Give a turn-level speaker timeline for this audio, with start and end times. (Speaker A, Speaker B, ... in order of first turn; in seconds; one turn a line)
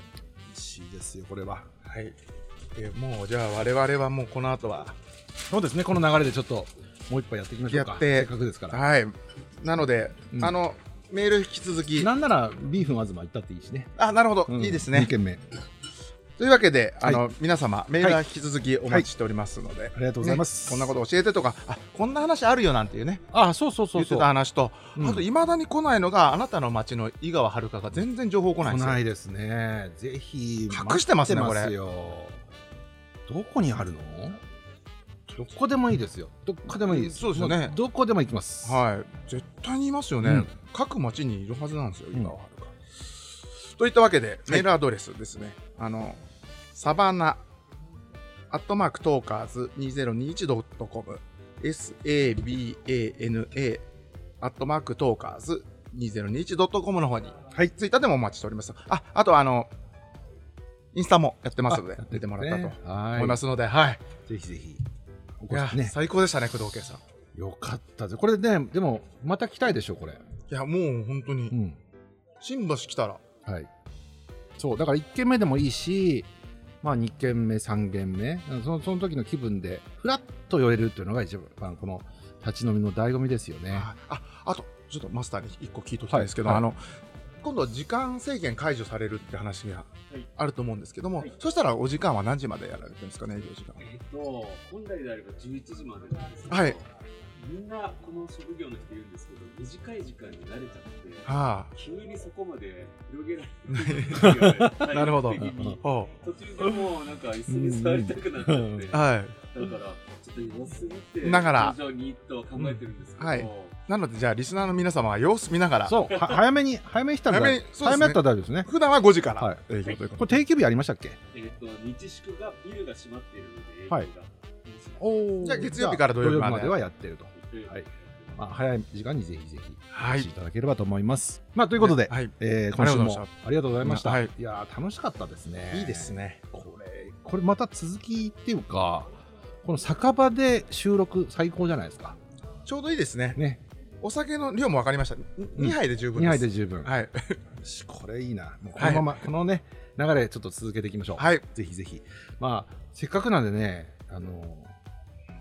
Speaker A: 0.5-1.7
Speaker B: 1.8-2.2
Speaker B: 2.7-5.0
Speaker A: 5.5-8.8
Speaker B: 7.7-12.1
Speaker A: 12.0-13.9
Speaker B: 14.0-15.1
Speaker A: 14.5-15.4
Speaker B: 16.4-23.2
Speaker A: 19.9-20.9
Speaker A: 23.3-24.3
Speaker B: 23.9-29.0
Speaker A: 24.9-25.2
Speaker A: 28.6-32.4
Speaker B: 30.7-31.7
Speaker A: 33.3-34.4
Speaker A: 35.4-38.8
Speaker B: 36.8-37.7
Speaker B: 38.6-42.8
Speaker A: 40.2-40.5
Speaker B: 43.5-47.4
Speaker B: 48.5-53.9
Speaker B: 54.4-59.7
Speaker B: 60.9-64.0
Speaker A: 61.7-63.4
Speaker A: 64.3-64.8
Speaker A: 65.4-65.9
Speaker B: 65.5-67.0
Speaker A: 67.3-70.2
Speaker B: 70.5-71.5
Speaker A: 71.5-71.8
Speaker B: 72.4-73.2
Speaker A: 74.6-76.3
Speaker A: 76.8-83.9
Speaker B: 83.7-86.8
Speaker A: 86.1-86.7
Speaker B: 87.4-93.8
Speaker C: 93.8-113.8
Speaker B: 96.5-96.8
Speaker B: 101.2-101.7
Speaker B: 103.7-106.1
Speaker A: 104.2-104.8
Speaker A: 105.4-105.8
Speaker A: 107.5-109.0
Speaker B: 108.9-109.3
Speaker B: 111.2-111.8
Speaker B: 112.6-116.0
Speaker A: 115.8-118.7
Speaker C: 116.1-116.4
Speaker B: 117.3-120.4
Speaker A: 119.4-119.6
Speaker A: 120.2-121.2
Speaker C: 121.3-125.1
Speaker A: 125.0-139.1
Speaker B: 125.4-126.8
Speaker C: 127.4-127.8
Speaker B: 129.9-130.3
Speaker B: 131.8-133.3
Speaker B: 133.8-134.3
Speaker B: 135.7-136.4
Speaker A: 139.6-142.2
Speaker B: 142.7-143.4
Speaker A: 143.3-143.6
Speaker B: 144.0-147.4
Speaker A: 145.6-146.9
Speaker A: 147.6-154.7
Speaker B: 148.8-149.2
Speaker B: 151.2-151.4